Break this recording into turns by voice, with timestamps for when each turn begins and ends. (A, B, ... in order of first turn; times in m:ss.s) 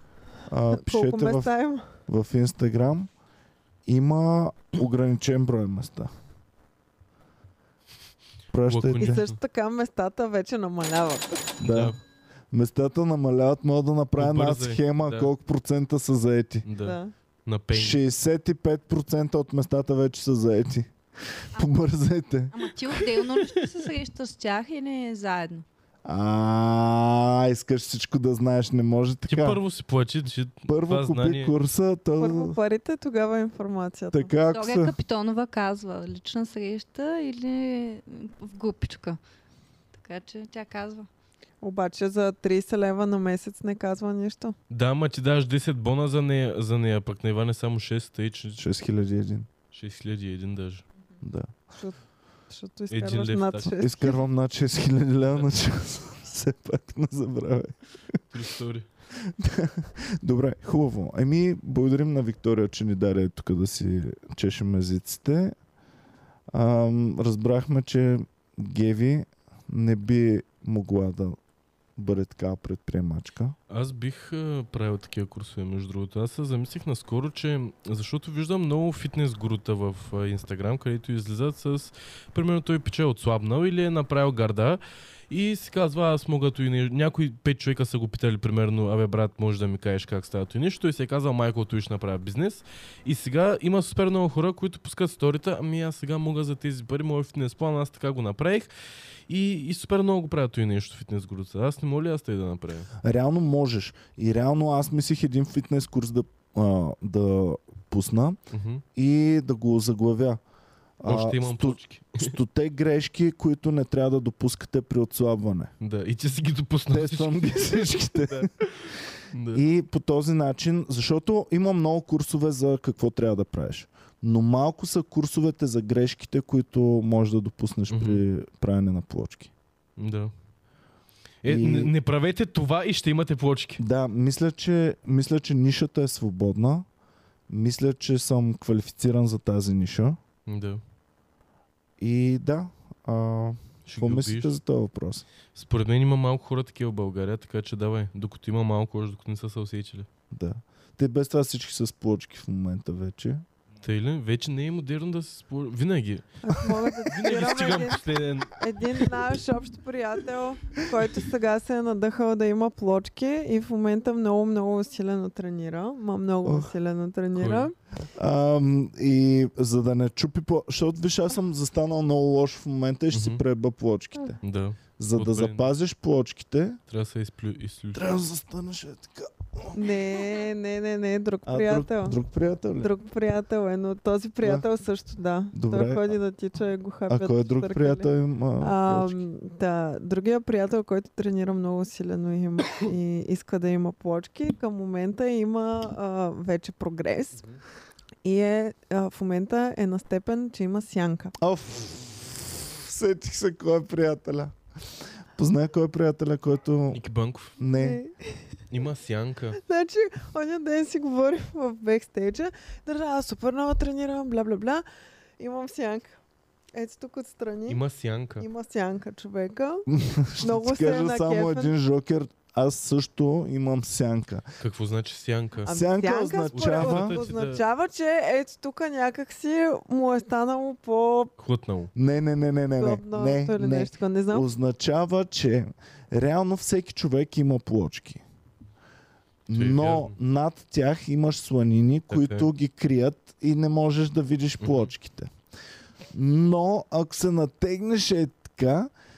0:00.5-0:03.1 A
0:00.7-0:01.9 B
0:03.9-0:06.1 A
0:08.5-0:09.2 A
0:08.6-0:09.4 C
0:09.0-0:11.5 B
0:11.6-0:12.0 A
0:11.6-0:12.0 C
0:12.5-0:16.7 A
0:14.2-0:15.3 C
0:16.6-0:18.0 C
0:16.8-0:17.1 B
0:17.7-0:22.5 A
0:22.5-0:25.7 D
0:23.0-0:23.6 C
0:26.0-0:29.6 A
0:29.3-0:31.5 C
0:30.7-0:32.6 A
0:32.2-0:34.3 B
0:34.1-0:34.9 A
0:34.4-0:39.2 D
0:40.0-0:41.1 D
0:41.6-0:44.6 B
0:44.7-0:48.6 C
0:48.6-0:49.5 A
0:49.7-0:50.8 C
0:51.2-0:51.5 A
0:52.5-0:54.2 B
0:52.9-0:53.7 C
0:53.8-0:58.4 A
0:58.3-0:58.9 C
0:59.4-1:05.6 A
1:06.5-1:11.4 A
1:12.0-1:13.6 A
1:13.7-1:38.7 C
1:39.3-1:42.9 C
1:43.0-1:48.4 A
1:48.5-1:48.8 C
1:49.0-1:50.4 A
1:51.0-1:55.7 A
1:51.0-1:52.4 C
1:55.8-1:58.8 C
1:56.9-1:58.5 A
1:59.3-1:59.6 C
1:59.5-2:09.5 A
2:07.9-2:08.2 C
2:10.0-2:10.3 C
2:11.4-2:13.8 C
2:11.5-2:11.9 A
2:13.8-2:16.9 A
2:17.5-2:20.2 A
2:20.5-2:20.8 C
2:22.0-2:25.2 A
2:23.9-2:24.6 C
2:25.5-2:30.1 C
2:30.3-2:33.4 A
2:33.8-2:38.5 C
2:36.4-2:47.8 B
2:47.4-2:47.7 C
2:48.2-2:54.4 A
2:53.1-2:53.4 C
2:54.4-2:55.7 C
2:55.0-2:56.8 A
2:56.9-2:58.2 C
2:57.9-2:59.8 A
2:59.7-3:02.2 B
3:01.5-3:02.9 A
3:02.8-3:08.1 B
3:05.5-3:06.2 A
3:07.1-3:09.2 A
3:08.6-3:17.4 B
3:18.2-3:21.4 B
3:21.4-3:24.5 A
3:25.4-3:27.0 A
3:26.9-3:27.6 C
3:27.6-3:28.0 A
3:27.8-3:28.4 B
3:28.7-3:29.6 C
3:29.6-3:34.8 B
3:35.4-3:36.2 B
3:36.7-3:37.8 B
3:37.7-3:38.5 C
3:38.4-3:39.9 B
3:39.9-3:44.5 A
3:40.4-3:41.7 B
3:44.6-3:45.7 C
3:45.6-3:51.3 B
3:45.7-3:47.2 A
3:46.5-3:47.6 C
3:51.4-3:51.9 C
3:52.0-3:58.2 A
3:52.8-3:54.5 B
3:59.5-4:05.3 A
3:59.5-4:00.2 C
4:02.1-4:02.5 C
4:04.6-4:04.9 C
4:06.1-4:08.9 A